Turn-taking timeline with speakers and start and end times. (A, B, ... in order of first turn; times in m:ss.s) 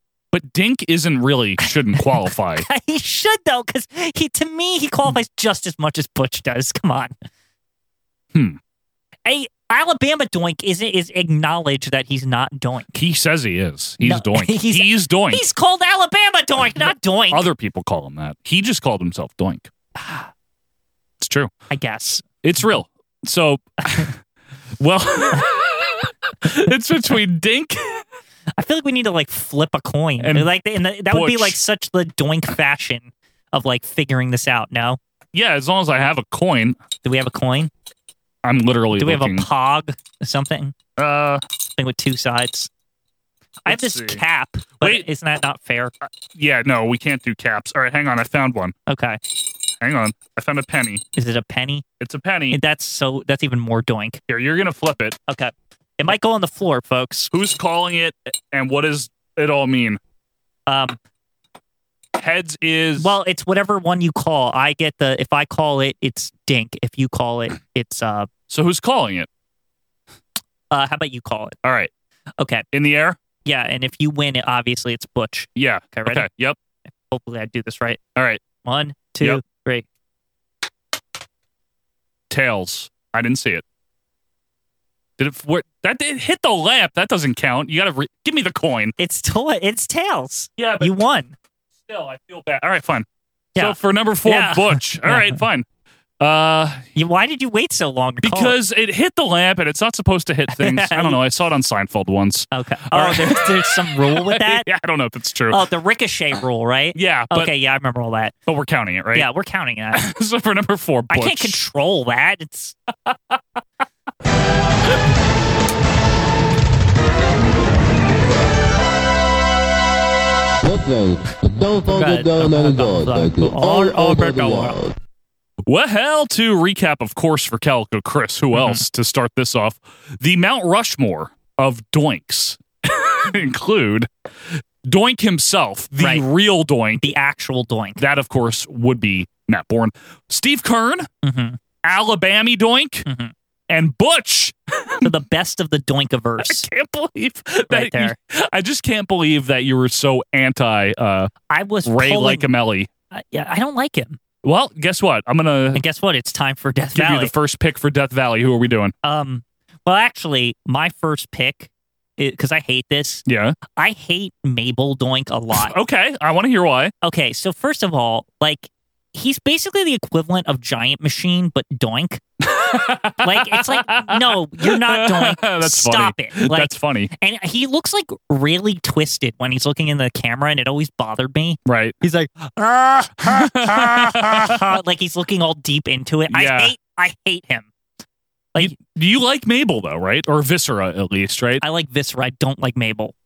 0:00.3-0:02.6 A
0:01.6-0:07.1 B
0:09.2-0:12.9 B
0:12.9-0:15.4 A
0:14.0-0:17.4 B
0:17.3-0:19.7 A
0:20.0-0:20.2 B
0:21.2-0:21.5 A
0:21.7-0:22.2 B
0:22.4-0:24.2 A
0:24.8-0:28.1 A
0:28.6-0:35.0 B
0:30.2-0:30.5 A
0:31.0-0:31.6 A
0:35.3-0:36.8 A
0:37.0-0:37.7 B
0:38.4-0:39.5 A
0:38.9-0:40.8 B
0:41.0-0:41.4 A
0:41.8-0:42.7 B
0:43.6-0:45.9 B
0:43.6-0:44.2 A
0:44.8-0:45.1 A
0:46.3-0:48.8 A
0:48.9-0:49.2 B
0:49.8-0:51.0 A
0:51.2-0:51.8 B
0:52.0-0:52.6 A
0:52.5-0:54.2 B
0:54.3-0:55.2 A
0:55.3-0:57.3 B
0:57.3-1:00.0 A
1:00.7-1:01.0 B
1:02.2-1:03.1 A
1:03.0-1:08.3 B
1:08.5-1:09.3 A
1:10.7-1:11.6 B
1:11.6-1:11.9 A
1:12.4-1:12.7 B
1:12.7-1:13.2 A
1:13.4-1:16.3 B
1:15.6-1:16.6 A
1:17.0-1:18.0 B
1:18.2-1:18.4 A
1:18.6-1:19.8 B
1:22.3-1:23.6 A
1:25.2-1:29.0 A
1:29.0-1:31.3 B
1:30.6-1:31.0 A
1:31.8-1:33.0 A
1:33.6-1:35.4 B
1:33.6-1:35.7 A
1:36.2-1:36.9 A
1:37.0-1:38.6 B
1:38.2-1:45.6 A
1:40.5-1:41.2 B
1:42.5-1:44.7 B
1:45.5-1:48.3 B
1:47.0-1:47.5 A
1:48.4-1:49.3 A
1:49.1-1:50.0 B
1:49.9-1:51.6 A
1:51.1-1:52.8 B
1:53.1-1:53.4 A
2:00.6-2:04.9 C
2:01.9-2:04.8 B
2:05.7-2:14.1 A
2:08.5-2:08.8 B
2:14.8-2:17.1 A
2:16.0-2:16.3 B
2:17.0-2:18.0 B
2:18.0-2:21.1 A
2:21.2-2:21.6 B
2:21.8-2:23.0 A
2:23.0-2:23.3 B
2:23.7-2:25.1 A
2:25.0-2:26.7 B
2:26.4-2:31.3 A
2:27.7-2:28.2 B
2:31.5-2:32.5 B
2:31.8-2:32.9 A
2:33.1-2:34.2 B
2:34.4-2:35.8 A
2:35.7-2:37.3 B
2:37.0-2:38.9 A
2:39.0-2:45.7 B
2:43.3-2:43.6 A
2:45.6-2:46.9 A
2:47.0-2:52.2 B
2:52.4-2:57.1 A
2:53.1-3:07.7 B
3:01.7-3:02.0 A
3:03.2-3:04.8 A
3:06.3-3:06.7 A
3:08.6-3:11.6 A
3:11.6-3:13.1 B